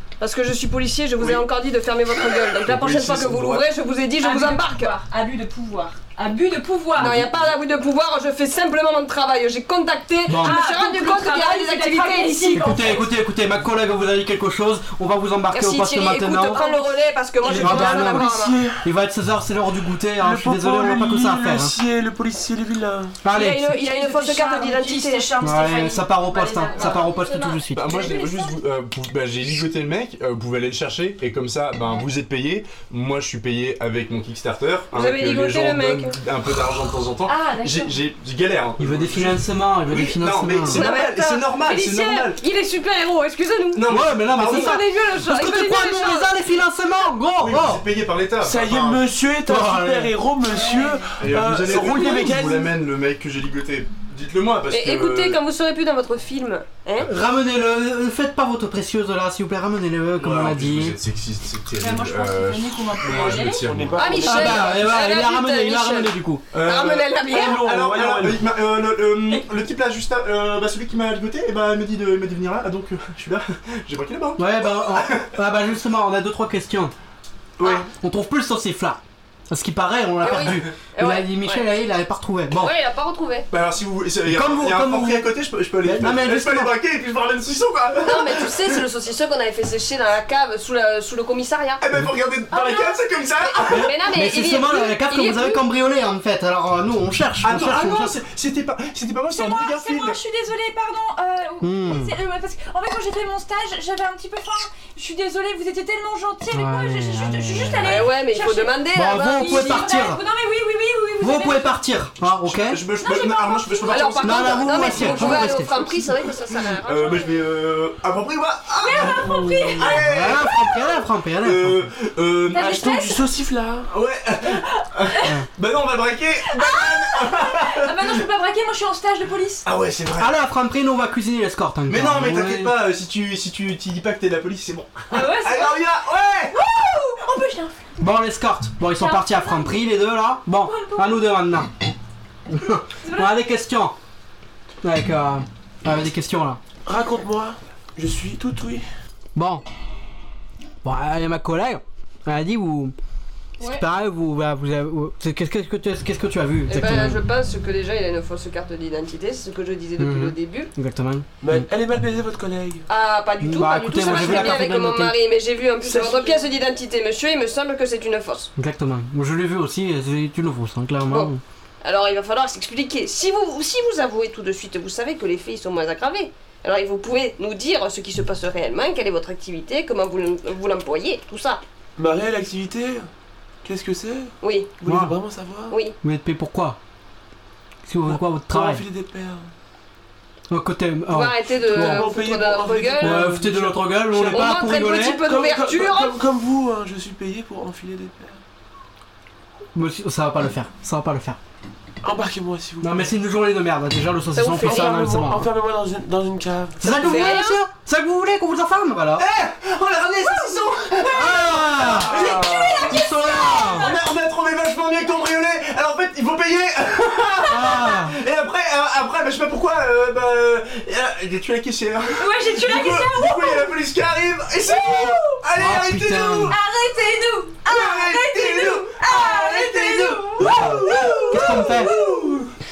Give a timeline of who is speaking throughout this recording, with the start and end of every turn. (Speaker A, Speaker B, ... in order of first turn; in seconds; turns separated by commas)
Speaker A: 0.2-5.0, Speaker B: 1.2-1.4, Speaker B: 2.6-3.7, Speaker C: 4.2-7.3, Speaker A: 6.9-12.9, Speaker D: 10.3-10.6, Speaker C: 10.4-13.1, Speaker D: 12.5-16.8, Speaker A: 15.5-18.6, Speaker E: 17.4-18.9, Speaker D: 17.5-21.8, Speaker E: 20.2-23.2, Speaker D: 23.2-23.8, Speaker A: 23.3-25.4, Speaker C: 23.7-28.6, Speaker D: 25.4-28.1, Speaker A: 26.7-27.1, Speaker B: 27.8-42.4, Speaker A: 34.9-36.2, Speaker C: 37.3-38.0, Speaker D: 38.8-40.9, Speaker A: 40.7-46.3, Speaker B: 43.7-44.8, Speaker D: 43.9-47.8, Speaker B: 47.4-49.0, Speaker E: 48.4-52.7, Speaker D: 49.5-50.1, Speaker B: 51.2-55.4, Speaker A: 54.7-57.1, Speaker D: 57.0-61.0, Speaker B: 60.2-64.2, Speaker C: 61.8-63.8, Speaker E: 63.2-64.8, Speaker A: 64.0-67.7, Speaker D: 64.2-66.4, Speaker B: 66.5-75.4, Speaker E: 67.2-68.5, Speaker D: 74.4-76.9, Speaker B: 77.6-77.9, Speaker D: 77.7-82.7, Speaker A: 80.2-81.7, Speaker A: 82.5-83.5, Speaker B: 83.5-88.8, Speaker D: 84.3-85.3, Speaker D: 85.8-86.7, Speaker A: 88.0-91.8, Speaker B: 91.8-94.0, Speaker C: 92.5-93.0, Speaker A: 93.4-95.6, Speaker D: 93.7-98.2, Speaker B: 97.4-100.2, Speaker C: 99.3-111.8, Speaker D: 101.6-102.2, Speaker D: 106.5-108.0, Speaker A: 107.8-109.5, Speaker D: 108.9-110.2, Speaker D: 111.2-112.8, Speaker B: 112.4-115.6, Speaker C: 113.0-114.2, Speaker A: 113.9-117.4, Speaker D: 114.2-115.8, Speaker C: 114.7-115.4, Speaker B: 116.5-120.7, Speaker C: 118.8-120.0, Speaker D: 119.8-121.8, Speaker B: 121.4-122.8, Speaker C: 122.5-123.2, Speaker E: 122.5-123.9, Speaker B: 123.9-128.2, Speaker C: 124.5-125.3, Speaker C: 126.5-129.7, Speaker B: 129.7-130.4, Speaker D: 130.2-132.8, Speaker B: 131.9-136.6, Speaker C: 135.1-135.9, Speaker C: 136.5-137.8, Speaker D: 138.0-141.7, Speaker C: 138.9-139.9, Speaker C: 140.6-141.2, Speaker D: 142.5-144.0, Speaker C: 143.0-143.4, Speaker D: 144.8-146.6, Speaker E: 146.8-148.9, Speaker D: 149.3-149.6, Speaker D: 150.8-152.9, Speaker D: 153.6-157.2, Speaker A: 156.7-160.7, Speaker D: 160.0-161.7, Speaker E: 161.4-162.9, Speaker A: 162.9-168.5, Speaker D: 163.4-165.2, Speaker E: 164.0-164.5, Speaker E: 165.8-166.4, Speaker D: 168.6-171.4, Speaker A: 171.1-181.6, Speaker E: 182.0-183.1, Speaker E: 183.6-185.8, Speaker A: 184.4-184.7, Speaker D: 184.8-185.2, Speaker A: 185.7-186.0, Speaker D: 186.0-186.8, Speaker D: 187.8-188.8, Speaker E: 188.1-189.5, Speaker D: 190.5-192.1, Speaker A: 191.1-193.3, Speaker E: 191.5-194.7, Speaker D: 193.0-195.2, Speaker A: 194.3-196.2, Speaker E: 195.2-198.4, Speaker D: 199.8-201.4, Speaker E: 202.0-203.1, Speaker D: 202.8-205.5, Speaker E: 204.3-207.3, Speaker D: 206.8-209.3, Speaker A: 206.9-207.6, Speaker B: 209.2-226.6, Speaker D: 211.1-212.2, Speaker E: 212.2-212.8, Speaker C: 212.3-214.0, Speaker A: 212.6-212.8, Speaker D: 212.9-213.9, Speaker D: 217.5-218.2, Speaker C: 222.2-223.7, Speaker C: 224.6-225.4, Speaker D: 225.6-226.6, Speaker C: 226.5-231.8, Speaker B: 227.6-232.5, Speaker D: 230.4-230.8, Speaker D: 231.3-232.0